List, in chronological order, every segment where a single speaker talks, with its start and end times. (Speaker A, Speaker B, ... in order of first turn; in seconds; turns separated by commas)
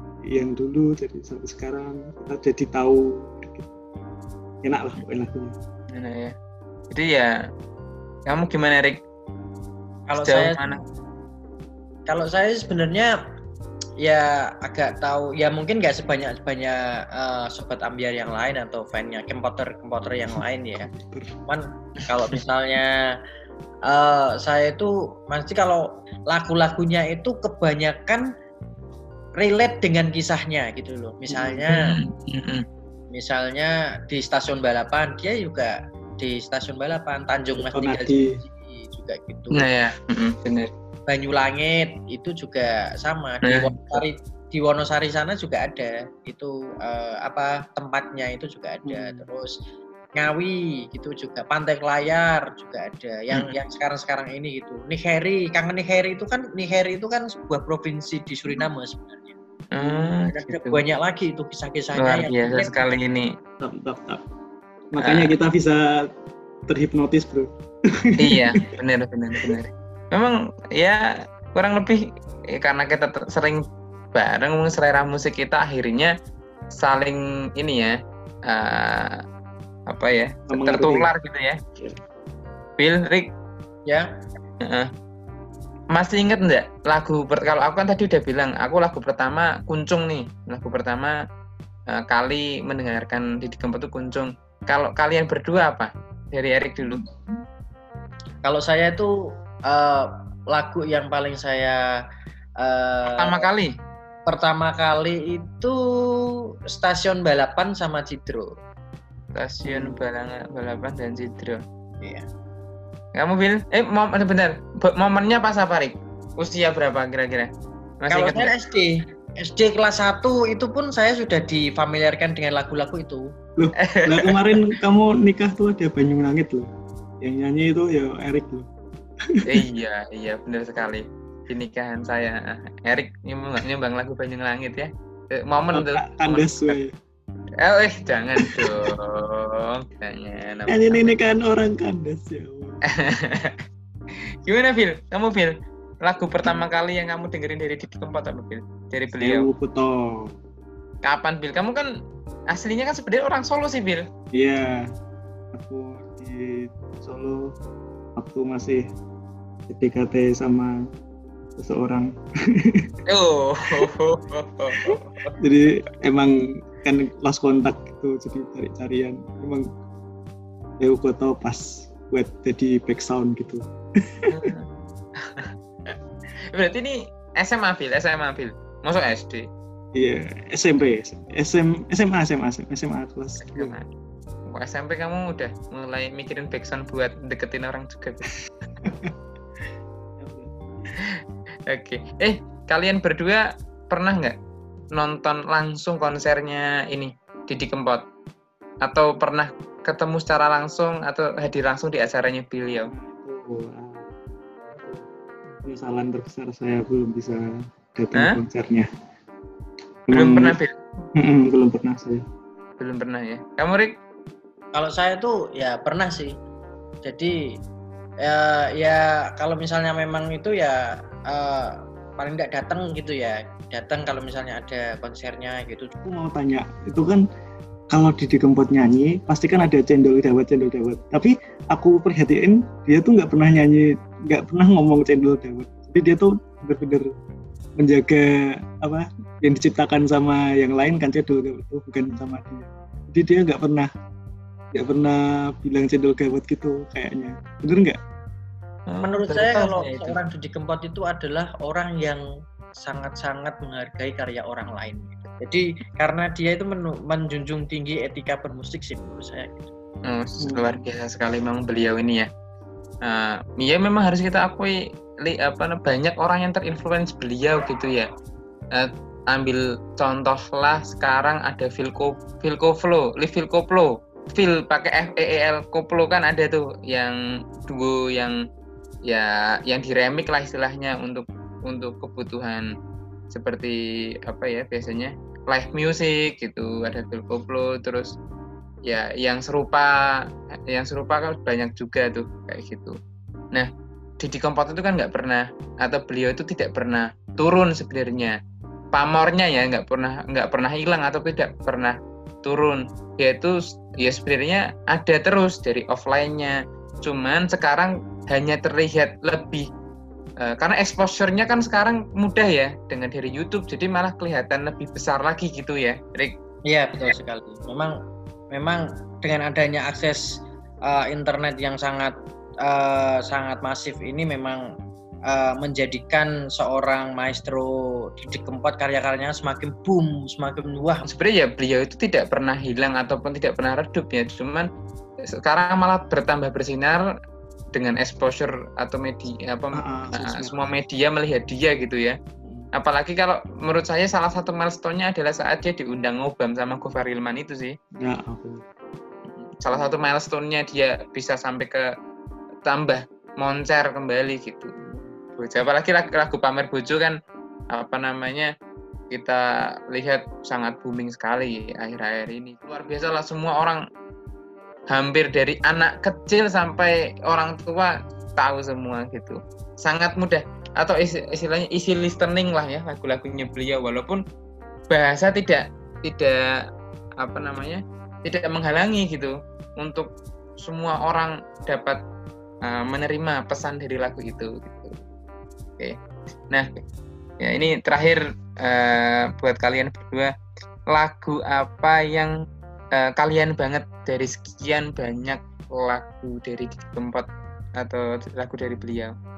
Speaker A: 0.3-3.8, Speaker A: 4.6-5.5, Speaker B: 5.9-6.3, Speaker B: 6.9-7.3, Speaker B: 8.3-9.0, Speaker C: 10.1-10.6, Speaker B: 10.2-10.8, Speaker C: 12.1-13.1, Speaker C: 14.0-20.9, Speaker A: 20.8-21.4, Speaker C: 21.5-22.9, Speaker C: 23.9-28.3, Speaker C: 29.4-31.9, Speaker A: 31.3-31.6, Speaker B: 31.7-32.6, Speaker C: 33.1-39.7, Speaker A: 37.6-38.3, Speaker B: 39.6-40.7, Speaker C: 41.1-49.6, Speaker B: 43.5-43.7, Speaker A: 48.9-49.3, Speaker C: 50.1-62.8, Speaker B: 59.7-60.8, Speaker B: 62.0-63.3, Speaker A: 63.6-64.2, Speaker A: 64.9-66.0, Speaker B: 65.0-65.3, Speaker A: 66.7-68.6, Speaker B: 68.2-71.0, Speaker B: 71.5-72.0, Speaker B: 72.6-73.6, Speaker B: 74.2-76.1, Speaker B: 76.8-77.9, Speaker B: 78.5-79.2, Speaker B: 79.9-81.6, Speaker A: 80.5-81.1, Speaker B: 82.8-83.3, Speaker B: 85.9-91.2, Speaker B: 91.9-97.0, Speaker C: 98.4-99.1, Speaker C: 99.7-101.8, Speaker C: 102.6-103.5, Speaker B: 103.2-103.7, Speaker C: 104.3-108.5, Speaker B: 109.3-111.6, Speaker C: 109.7-109.9, Speaker C: 112.0-112.3, Speaker B: 113.2-117.5, Speaker B: 118.0-118.5, Speaker C: 118.1-123.2, Speaker A: 123.6-126.7, Speaker B: 123.9-124.6, Speaker A: 127.2-128.7, Speaker B: 129.5-136.8, Speaker A: 135.7-136.9, Speaker B: 137.6-141.1, Speaker A: 138.4-138.7, Speaker A: 140.7-142.8, Speaker B: 143.0-143.6, Speaker B: 144.5-145.5, Speaker B: 146.1-149.5, Speaker A: 149.2-150.3, Speaker B: 151.1-151.9, Speaker B: 152.5-154.1, Speaker A: 154.3-154.8, Speaker A: 155.5-157.4, Speaker A: 158.2-158.8, Speaker A: 159.7-160.7, Speaker A: 161.6-162.9, Speaker B: 163.1-165.3, Speaker A: 164.9-169.7, Speaker A: 170.8-173.6, Speaker B: 174.3-174.7, Speaker B: 175.2-176.0, Speaker B: 176.5-179.5, Speaker A: 179.9-183.8, Speaker B: 183.4-183.9, Speaker B: 184.5-188.3, Speaker A: 188.8-189.1, Speaker A: 190.2-190.9, Speaker B: 191.7-194.4, Speaker B: 194.9-198.0, Speaker B: 198.8-202.9, Speaker A: 202.9-205.0, Speaker A: 205.6-208.9, Speaker A: 210.1-210.6, Speaker B: 210.1-210.7, Speaker A: 211.2-212.2, Speaker B: 212.8-213.9, Speaker C: 214.7-216.3, Speaker C: 217.0-217.3, Speaker C: 218.2-225.9, Speaker A: 226.0-227.2, Speaker A: 227.9-237.1, Speaker A: 237.8-243.9, Speaker A: 244.7-248.0, Speaker B: 248.9-250.2, Speaker C: 249.0-252.2, Speaker C: 252.8-259.7, Speaker B: 260.1-262.3, Speaker A: 260.4-260.8, Speaker B: 263.1-264.7, Speaker B: 265.3-268.1, Speaker B: 268.7-277.1, Speaker B: 277.7-278.3, Speaker B: 279.1-282.7, Speaker B: 283.3-283.8, Speaker B: 284.3-288.1, Speaker B: 288.9-289.9, Speaker B: 290.7-293.0, Speaker B: 294.2-298.4, Speaker B: 298.9-309.7, Speaker B: 310.4-316.3, Speaker C: 316.7-317.9, Speaker C: 318.5-322.1, Speaker C: 322.6-324.6, Speaker C: 325.3-331.1, Speaker B: 331.1-334.7, Speaker B: 335.4-337.0, Speaker B: 337.7-342.2, Speaker A: 339.8-340.5, Speaker A: 342.4-342.7, Speaker B: 342.8-347.8, Speaker A: 348.0-348.6, Speaker B: 349.3-351.8, Speaker A: 349.7-350.0, Speaker B: 352.7-354.7, Speaker A: 354.8-355.2, Speaker B: 355.4-357.2, Speaker B: 357.7-358.5, Speaker B: 359.1-359.4, Speaker B: 359.9-363.8, Speaker B: 364.9-374.2, Speaker B: 374.9-376.4, Speaker B: 377.2-380.1, Speaker B: 380.6-382.0, Speaker B: 382.6-385.0, Speaker B: 387.4-390.3, Speaker B: 390.9-392.3, Speaker B: 393.0-397.3, Speaker B: 397.8-399.1